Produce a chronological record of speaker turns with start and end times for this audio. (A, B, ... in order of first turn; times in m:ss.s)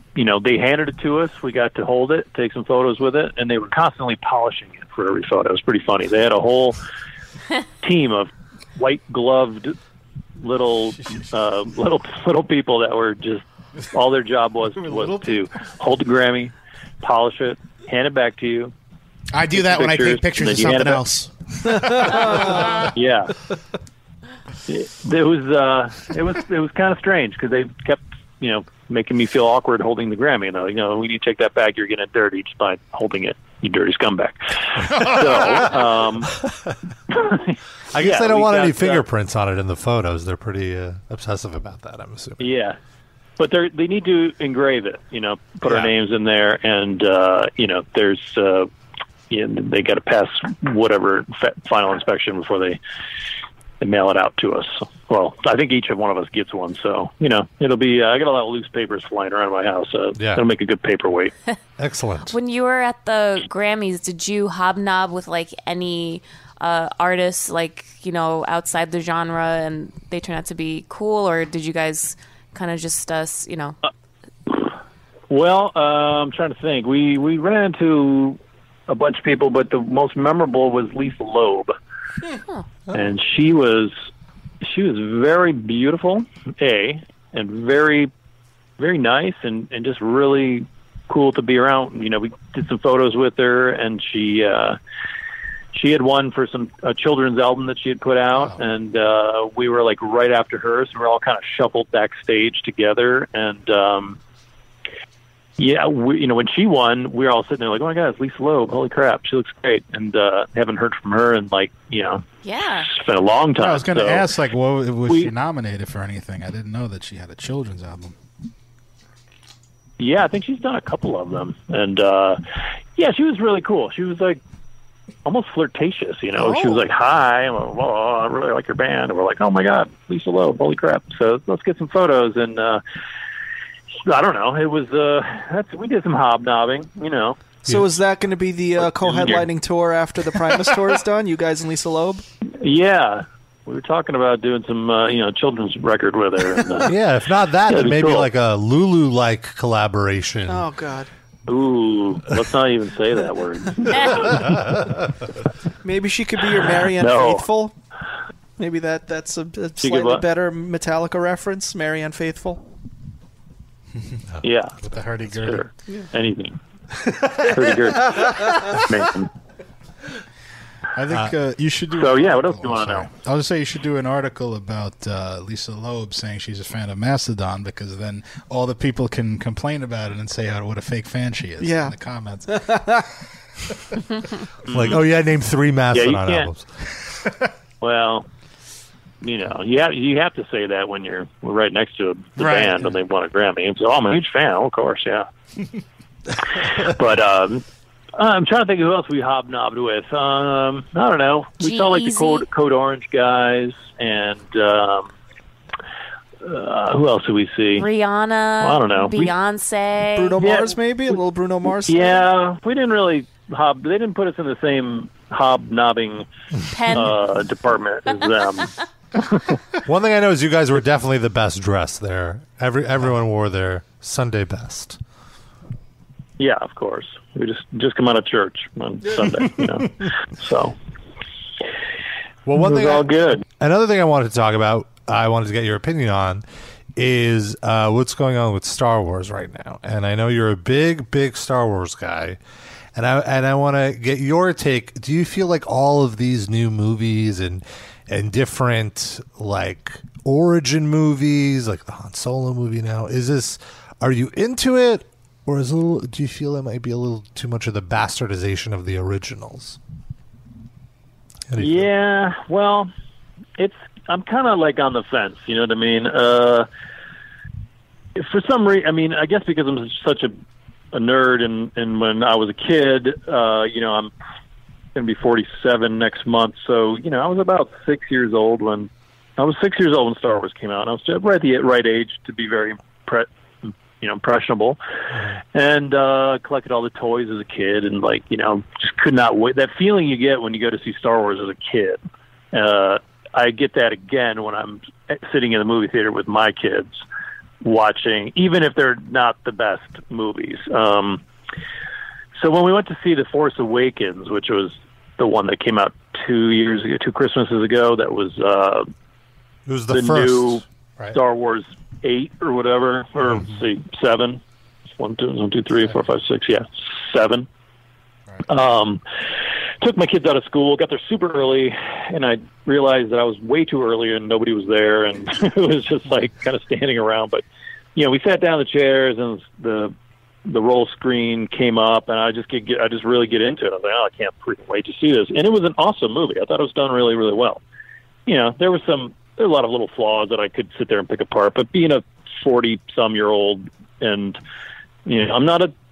0:00.2-0:06.8 A
0:07.8-0:09.8 A
0:10.4-0:18.7 A
0:14.9-0:15.3 B
0:19.3-0:21.3 C
0:19.5-0:21.0 A
0:21.8-0:22.9 D
0:22.1-0:23.4 A
0:24.7-0:36.4 A
0:37.1-0:39.0 A
0:37.9-0:42.5 E
0:42.4-0:42.8 A
0:43.4-0:48.7 A
0:49.3-0:52.8 A
0:53.8-1:01.3 A
1:00.2-1:00.4 E
1:01.8-1:02.3 E
1:02.3-1:13.8 F
1:15.3-1:21.7 A
1:22.9-1:23.9 A
1:24.6-1:28.1 A
1:28.8-1:34.8 A
1:35.7-1:44.2 A
1:45.6-1:52.2 A
1:52.4-1:52.9 F
1:52.9-1:54.3 A
1:53.6-1:58.2 B
1:55.1-1:55.3 A
2:00.0-2:02.4 A
2:03.0-2:04.4 A
2:05.2-2:12.8 A
2:06.5-2:06.8 D
2:14.0-2:17.6 A
2:17.6-2:22.2 D
2:18.8-2:19.5 A
2:22.6-2:26.9 A
2:26.9-2:30.7 E
2:27.7-2:28.3 A
2:30.5-2:31.1 D
2:31.5-2:34.6 A
2:35.8-2:37.8 D
2:37.0-2:37.5 A
2:38.6-2:42.6 D
2:39.8-2:40.2 A
2:44.4-2:44.8 A
2:44.8-2:45.7 B
2:45.3-2:46.6 A
2:47.3-2:49.3 A
2:51.0-3:02.6 B
2:52.0-2:53.1 A
3:01.6-3:02.0 D
3:02.5-3:03.0 D
3:04.7-3:06.7 E
3:04.7-3:05.0 A
3:05.9-3:06.5 A
3:07.8-3:08.3 A
3:09.2-3:15.3 A
3:12.4-3:12.8 B
3:16.6-3:17.6 A
3:18.2-3:25.1 A
3:21.6-3:22.4 F
3:26.4-3:27.9 A
3:27.8-3:30.4 F
3:28.6-3:29.3 A
3:30.2-3:32.2 D
3:30.4-3:31.2 A
3:31.9-3:36.3 A
3:36.7-3:37.1 F
3:36.9-3:38.7 A
3:39.8-3:45.0 E
3:46.4-3:50.8 A
3:52.5-3:56.4 E
3:52.5-3:53.4 A
3:57.0-4:02.4 E
4:03.0-4:19.8 E
4:21.5-4:21.9 E
4:21.6-4:22.9 A
4:23.6-4:26.7 A
4:28.2-4:30.4 A
4:30.9-4:34.1 A
4:35.0-4:44.8 A
4:45.5-4:52.0 A
4:52.5-4:57.0 A
4:57.6-5:01.2 A
5:02.4-5:08.9 A
5:09.7-5:11.2 E
5:09.9-5:14.4 A
5:15.0-5:17.5 A
5:18.5-5:19.0 A
5:19.8-5:27.4 A
5:28.0-5:29.9 A
5:30.5-5:37.6 A
5:38.3-5:44.4 A
5:45.1-5:45.7 A